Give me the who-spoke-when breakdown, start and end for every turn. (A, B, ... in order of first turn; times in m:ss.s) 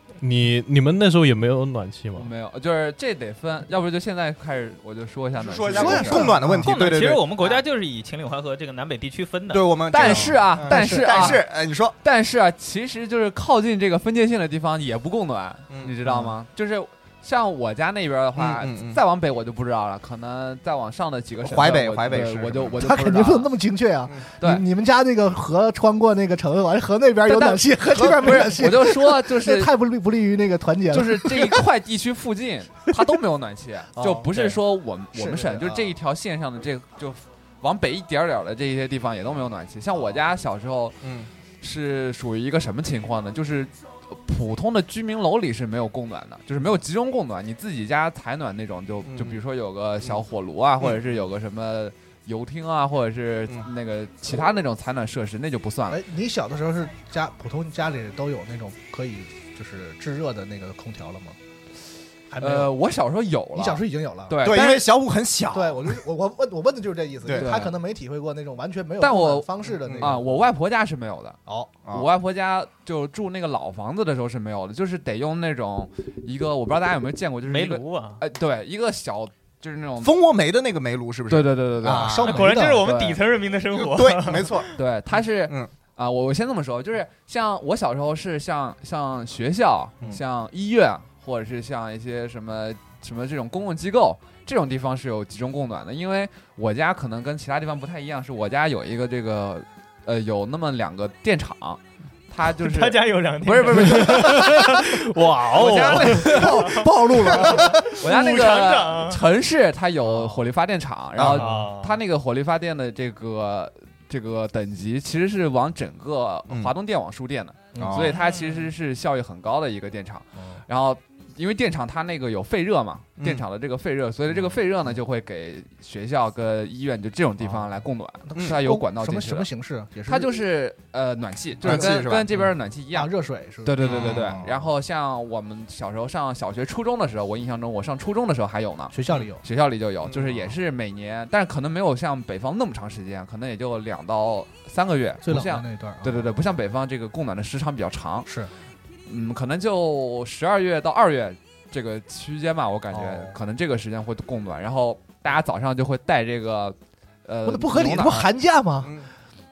0:00.2-0:02.3 A
0:02.1-0:06.3 B
0:05.4-0:07.6 C
0:05.7-0:06.8 D
0:06.6-0:09.7 E
0:09.5-0:12.0 C
0:09.9-0:11.5 B
0:10.0-0:11.4 D
0:12.0-0:23.5 B
0:15.7-0:16.0 C
0:16.0-0:16.3 D
0:18.4-0:19.0 C
0:21.4-0:22.9 C
0:22.8-0:31.6 D
0:24.4-0:24.6 B
0:27.3-0:29.7 B
0:28.1-0:28.5 C
0:30.9-0:41.0 B
0:33.9-0:34.3 D
0:35.1-0:35.8 D
0:41.0-0:41.3 C
0:41.6-0:56.0 B
0:49.0-0:49.4 C
0:55.9-1:01.4 D
1:02.3-1:02.8 D
1:02.4-1:04.9 B
1:03.5-1:04.6 D
1:04.4-1:06.0 C
1:05.5-1:10.4 D
1:07.3-1:07.7 B
1:09.0-1:11.4 B
1:09.7-1:10.1 C
1:11.4-1:11.7 D
1:11.9-1:20.1 B
1:17.4-1:18.2 E
1:20.0-1:22.4 C
1:21.3-1:23.2 B
1:21.8-1:22.9 D
1:22.2-1:24.7 E
1:23.7-1:25.7 C
1:24.8-1:44.6 B
1:42.6-1:49.2 E
1:45.5-1:46.8 B
1:46.0-1:47.8 D
1:47.9-2:09.5 B
1:50.0-1:50.4 D
1:51.2-1:51.6 C
1:51.3-1:52.0 E
1:56.5-1:56.7 C
1:57.7-1:58.2 D
1:57.8-1:58.2 C
1:58.2-1:58.7 E
2:00.4-2:00.6 D
2:03.2-2:03.4 C
2:07.4-2:10.4 D
2:10.1-2:28.3 B
2:11.6-2:12.4 C
2:12.3-2:14.7 D
2:13.8-2:14.4 C
2:18.9-2:19.4 D
2:20.0-2:20.5 C
2:25.2-2:26.3 D
2:28.2-2:28.5 D
2:29.0-2:38.3 B
2:32.9-2:33.4 D
2:37.4-2:39.1 D
2:38.8-2:39.1 C